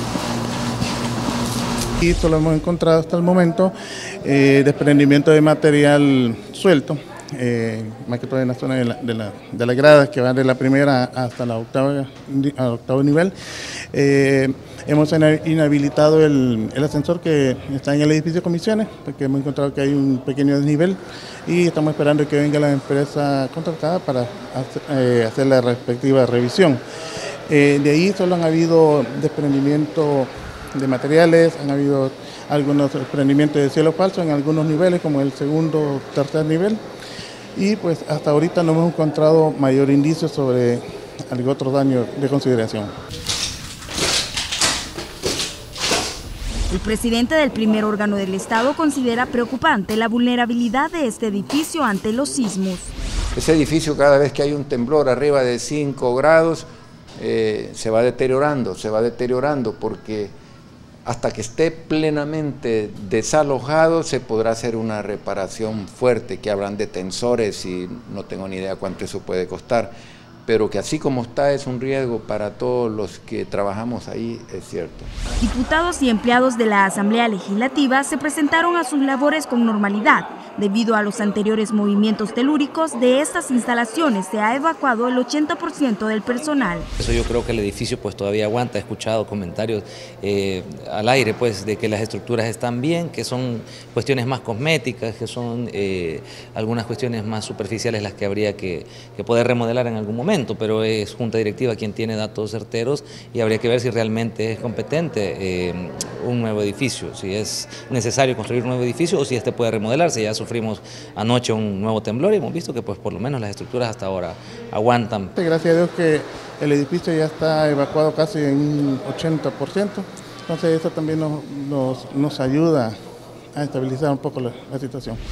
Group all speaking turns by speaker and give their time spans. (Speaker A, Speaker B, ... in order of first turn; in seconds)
Speaker A: 2.0-13.3, 13.9-26.8, 27.5-36.8, 37.5-42.9, 115.3-122.9, 123.5-125.2
Speaker B: 46.7-52.9, 75.4-86.8
Speaker C: 53.3-60.3, 61.0-69.9, 70.5-75.1
Speaker D: 87.0-115.3